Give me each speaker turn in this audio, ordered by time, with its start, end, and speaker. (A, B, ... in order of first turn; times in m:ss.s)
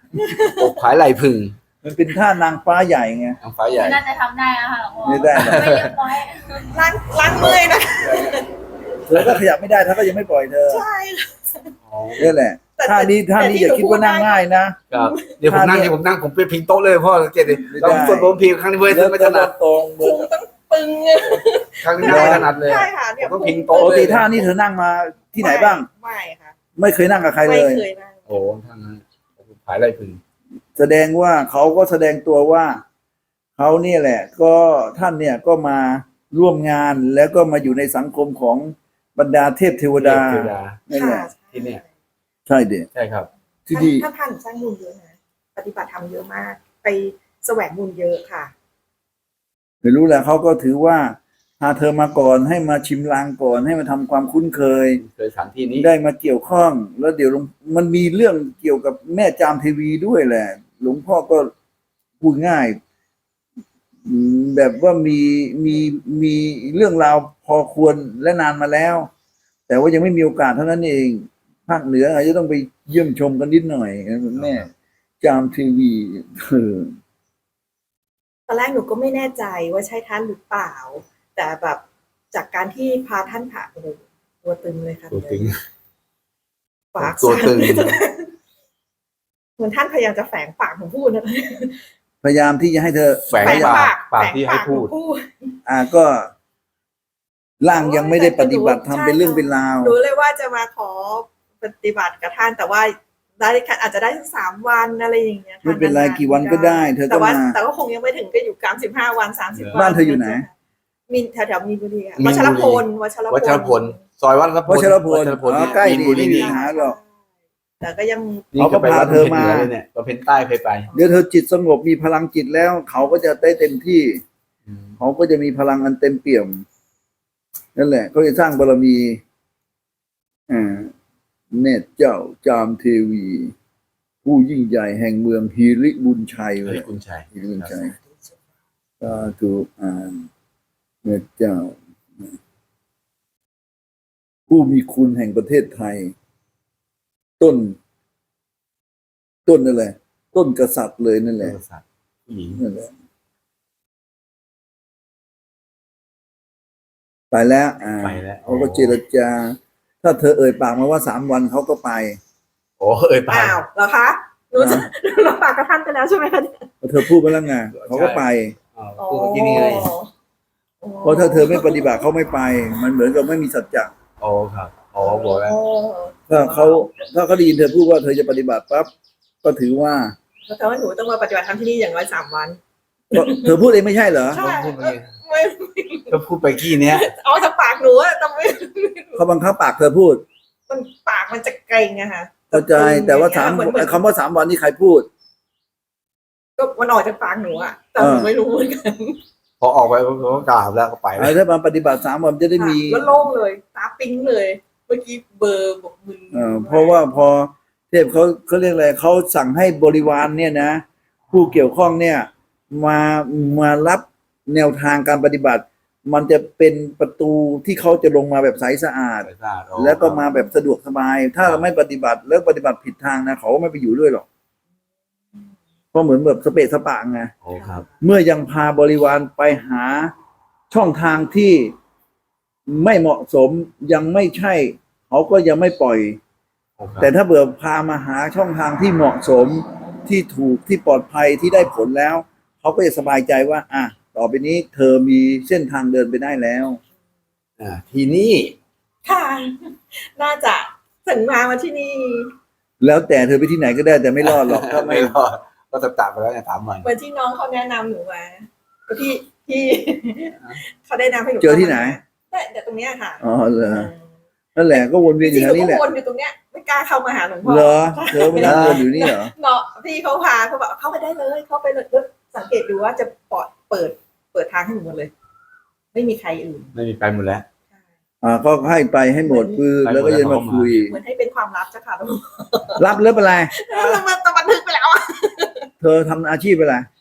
0:00.1-0:00.7 A
0:00.4-0:01.6 B
0:01.8-0:03.4 C
0:03.4-0:04.0 B
0:03.7-0:06.8 D
0:05.0-0:05.8 C
0:05.3-0:06.0 B
0:06.7-0:08.5 A
0:07.4-0:08.4 B
0:09.1-0:10.8 C
0:09.1-0:09.4 B
0:10.7-0:11.7 A
0:11.9-0:12.4 B
0:12.2-0:14.8 C
0:12.8-0:14.4 A
0:14.9-0:19.5 B
0:15.0-0:15.3 A
0:15.4-0:15.9 C
0:17.7-0:20.3 C
0:20.0-0:24.2 A
0:21.8-0:24.4 B
0:22.0-0:22.5 C
0:23.8-0:25.9 C
0:25.4-0:26.6 A
0:26.8-0:27.8 C
0:27.4-0:28.5 A
0:28.3-0:30.2 B
0:30.8-0:32.8 C
0:33.6-0:41.3 C
0:40.0-0:40.8 B
0:40.9-0:41.9 A
0:41.5-0:41.8 B
0:42.5-0:42.9 C
0:42.9-0:43.3 B
0:43.7-0:44.0 C
0:43.7-0:48.5 A
0:49.8-0:55.0 C
0:55.0-0:55.9 B
0:55.8-1:01.5 C
1:02.2-1:02.8 C
1:04.0-1:09.1 C
1:09.7-1:14.7 C
1:14.4-1:14.7 B
1:15.2-1:17.0 C
1:18.5-1:25.5 A
1:25.1-1:25.6 B
1:26.9-1:28.3 A
1:27.0-1:28.0 B
1:29.6-1:31.8 A
1:32.2-1:33.9 C
1:33.3-1:34.9 B
1:33.4-1:35.6 A
1:35.6-1:36.3 C
1:37.6-1:39.9 C
1:37.7-1:50.5 A
1:45.6-1:47.6 C
1:49.5-1:49.8 B
1:49.7-1:50.4 C
1:51.1-1:54.0 A
1:52.2-1:56.6 B
1:54.7-1:57.0 C
1:55.5-1:57.0 A
1:57.8-1:58.5 A
1:58.5-2:00.9 B
1:58.6-1:59.7 C
2:00.9-2:04.2 C
2:04.6-2:05.0 B
2:05.0-2:06.6 C
2:07.8-2:09.2 C
2:10.5-2:10.9 C
2:11.5-2:13.5 C
2:14.2-2:17.9 C
2:16.6-2:17.7 B
2:19.0-2:20.3 C
2:21.0-2:22.3 C
2:24.5-2:26.1 C
2:27.4-2:27.8 C
2:29.4-2:31.6 C
2:31.4-2:32.6 B
2:32.6-2:32.9 C
2:37.3-2:42.2 C
2:38.0-2:39.0 B
2:42.8-2:43.6 B
2:43.3-2:46.7 A
2:44.6-2:44.9 C
2:46.8-2:48.6 C
2:47.7-2:49.9 B
2:49.0-2:50.1 A
2:50.8-2:52.1 A
2:51.0-2:53.9 C
2:54.2-2:55.6 B
2:55.0-2:56.8 A
2:56.3-2:58.9 C
2:59.4-3:00.1 C
3:00.5-3:02.6 A
3:03.1-3:04.4 C
3:03.1-3:03.6 A
3:04.3-3:05.1 B
3:04.3-3:09.2 A
3:06.1-3:07.1 B
3:09.2-3:10.2 C
3:10.7-3:14.0 A
3:12.5-3:15.1 C
3:16.6-3:19.2 A
3:18.0-3:18.3 C
3:19.6-3:21.4 B
3:21.2-3:23.0 C
3:22.6-3:27.0 A
3:26.3-3:44.2 C
3:39.2-3:40.2 B
3:45.9-3:47.3 C
3:47.4-3:47.9 B
3:47.5-3:47.9 A
3:48.0-3:50.1 C
3:50.7-3:51.7 C
3:52.7-3:56.2 C
3:56.8-3:57.1 B
3:57.0-4:06.8 C
4:07.6-4:08.6 B
4:09.0-4:12.3 A
4:12.8-4:15.1 C
4:14.2-4:16.9 B
4:16.8-4:24.0 A
4:21.4-4:22.0 C
4:23.2-4:23.9 C
4:24.6-4:25.8 C
4:24.8-4:35.1 A
4:27.4-4:29.3 C
4:28.4-4:28.8 B
4:35.9-4:36.7 A
4:36.7-4:37.4 B
4:38.2-4:40.9 C
4:39.2-4:39.6 A
4:39.8-4:40.8 B
4:40.8-4:42.8 A
4:42.8-4:43.6 C
4:43.5-4:45.7 A
4:45.8-4:46.9 C